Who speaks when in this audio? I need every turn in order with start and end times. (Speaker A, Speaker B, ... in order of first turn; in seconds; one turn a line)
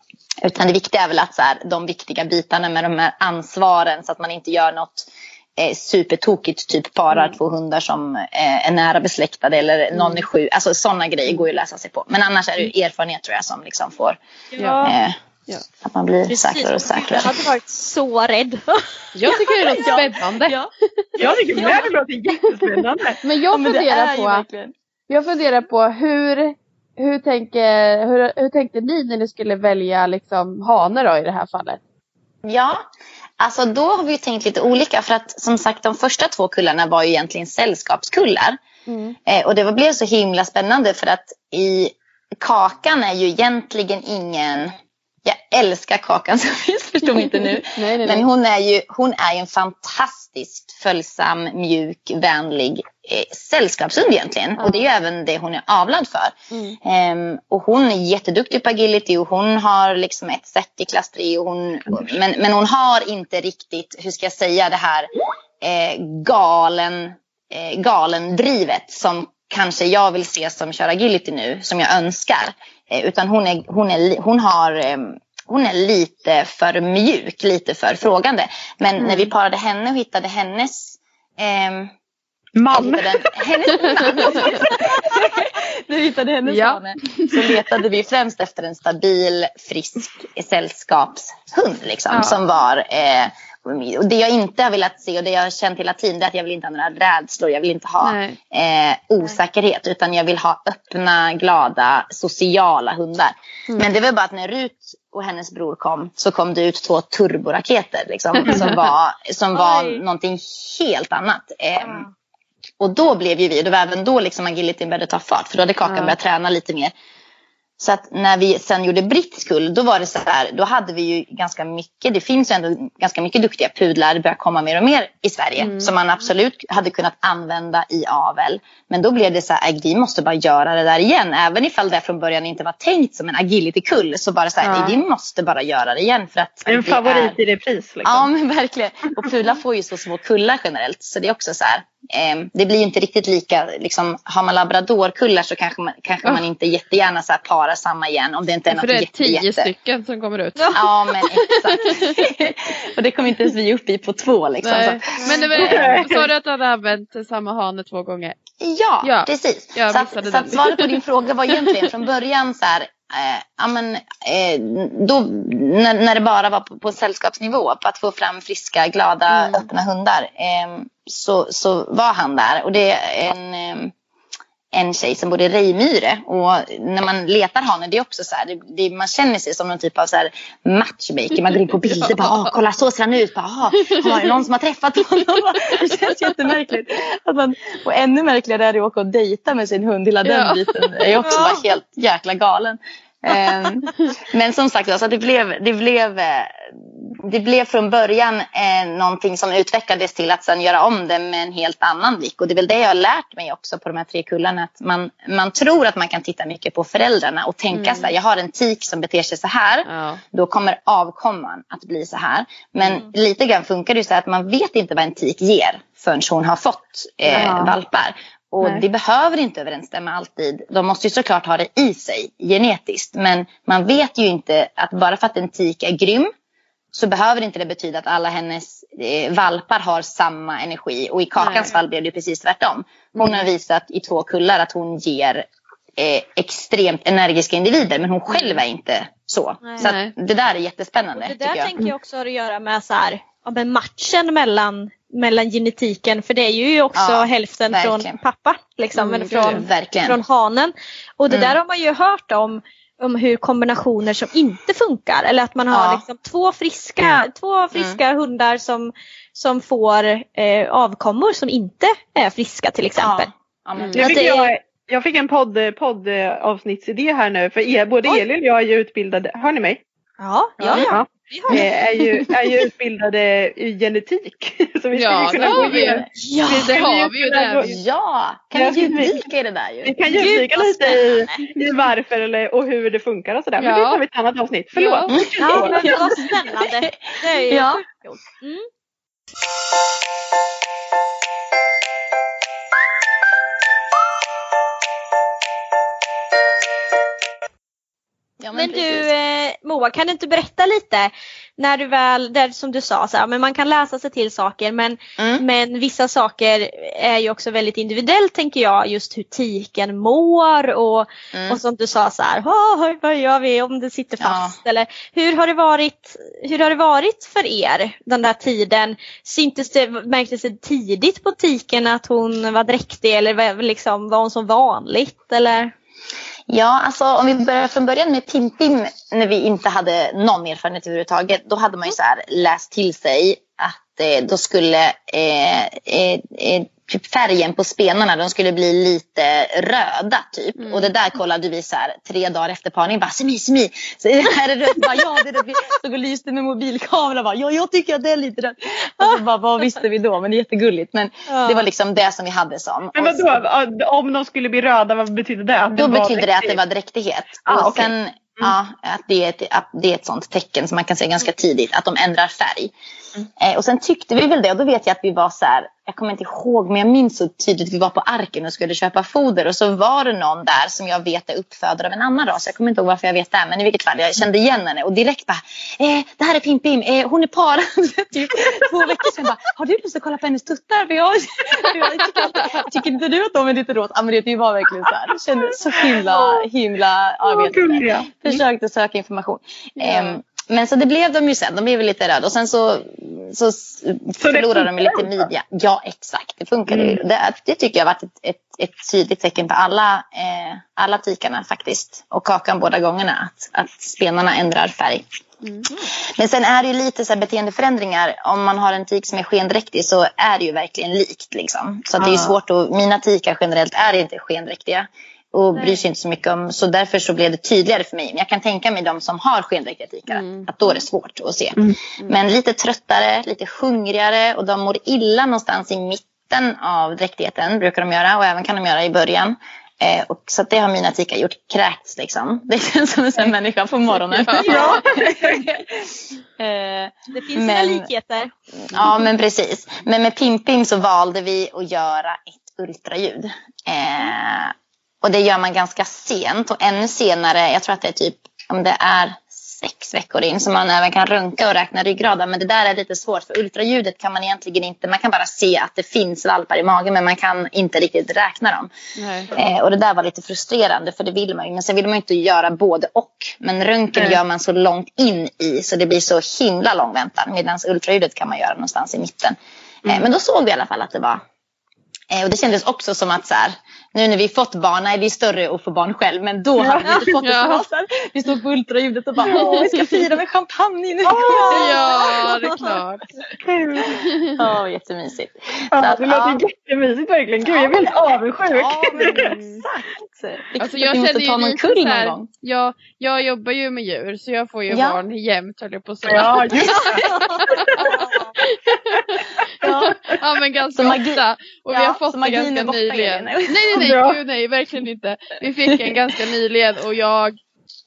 Speaker A: 0.4-14.2
Speaker B: 10.0-10.2
Speaker C: 14.5-14.9
Speaker B: 14.6-14.9
Speaker A: 14.8-15.1
Speaker A: 15.8-17.3
Speaker C: 16.3-18.8
Speaker B: 19.1-20.6
Speaker A: 19.2-20.7
Speaker D: 21.2-23.2
Speaker A: 21.5-21.8
Speaker B: 23.2-24.4
Speaker A: 23.5-24.7
Speaker B: 25.1-31.8
Speaker A: 32.4-32.8
Speaker A: 33.4-38.6
Speaker B: 38.9-39.1
Speaker A: 39.2-65.1
Speaker B: 47.6-48.2
Speaker B: 54.6-54.9
Speaker B: 56.5-56.8
Speaker A: 65.6-81.9
Speaker D: 82.6-83.1
Speaker A: 82.7-112.0
Speaker B: 84.1-84.6
Speaker B: 86.5-87.4
Speaker B: 92.1-92.4
Speaker B: 98.0-98.4
Speaker B: 108.4-108.8
Speaker C: 109.5-110.0
Speaker C: 111.8-112.1
Speaker A: 112.8-116.9
Speaker B: 115.8-116.1
Speaker A: 117.8-137.4
Speaker B: 125.6-125.9
Speaker B: 134.6-135.0
Speaker D: 136.7-138.3
Speaker A: 138.0-149.7
Speaker B: 148.7-152.3
Speaker A: 150.8-156.1
Speaker B: 154.6-158.4
Speaker C: 155.2-155.5
Speaker D: 155.6-156.3
Speaker A: 158.6-173.9
Speaker B: 159.0-160.9
Speaker B: 169.3-169.7
Speaker A: 174.7-226.3
Speaker B: 181.8-182.5
Speaker B: 183.8-184.3
Speaker B: 190.2-190.9
Speaker C: 191.2-191.6
Speaker B: 207.7-208.1
Speaker B: 209.8-210.2
Speaker D: 217.3-217.7
Speaker B: 217.3-217.6
Speaker A: 226.9-241.7
Speaker B: 231.4-231.7
Speaker C: 239.6-239.9
Speaker B: 239.8-240.1
Speaker C: 241.2-263.3
Speaker A: 246.9-248.2
Speaker A: 249.0-250.2
Speaker B: 249.2-249.7
Speaker A: 251.3-251.6
Speaker A: 255.7-256.0
Speaker A: 257.7-258.0
Speaker A: 263.0-264.1
Speaker B: 263.8-264.1
Speaker D: 263.9-269.8
Speaker C: 264.0-264.5
Speaker C: 270.2-271.7
Speaker A: 270.6-270.9
Speaker D: 270.8-277.7
Speaker B: 274.9-277.6
Speaker A: 275.4-276.1
Speaker C: 276.2-276.6
Speaker A: 277.6-279.9
Speaker D: 278.5-279.2
Speaker D: 279.8-286.2
Speaker C: 280.1-281.5
Speaker B: 283.6-284.0
Speaker B: 284.7-285.1
Speaker A: 285.1-287.8
Speaker C: 285.4-288.7
Speaker A: 298.4-299.1
Speaker C: 298.5-325.7
Speaker A: 305.2-305.4
Speaker A: 311.3-311.6
Speaker A: 314.2-314.6
Speaker A: 326.5-353.4
Speaker B: 340.6-340.9
Speaker C: 351.3-351.6
Speaker D: 352.9-356.6
Speaker A: 355.7-362.7
Speaker D: 357.4-358.5
Speaker A: 363.4-405.0
Speaker D: 385.9-386.4
Speaker D: 387.3-388.4
Speaker B: 389.8-390.2
Speaker D: 394.2-395.1
Speaker D: 396.7-397.0
Speaker A: 406.1-437.9
Speaker D: 412.0-412.3
Speaker C: 415.6-415.8
Speaker B: 420.1-420.5
Speaker B: 434.2-434.7
Speaker D: 434.4-435.4
Speaker C: 437.1-438.3
Speaker A: 438.7-458.7
Speaker B: 459.0-459.3
Speaker A: 459.3-471.2
Speaker A: 472.1-482.1
Speaker D: 476.6-477.1
Speaker B: 477.2-477.6
Speaker D: 479.2-479.7
Speaker B: 479.2-480.0
Speaker D: 481.0-481.9
Speaker B: 481.5-483.0
Speaker D: 483.4-484.0
Speaker B: 484.0-484.3
Speaker A: 484.2-486.4
Speaker D: 485.7-489.3
Speaker A: 487.4-487.9
Speaker A: 488.5-492.3
Speaker B: 489.1-489.6
Speaker B: 490.6-497.8
Speaker A: 494.7-495.0
Speaker D: 496.1-498.1
Speaker A: 496.6-497.0
Speaker C: 497.0-497.3
Speaker C: 498.0-498.3
Speaker B: 498.5-507.4
Speaker A: 499.6-500.1
Speaker A: 500.7-503.8
Speaker D: 503.7-504.2
Speaker A: 505.6-505.9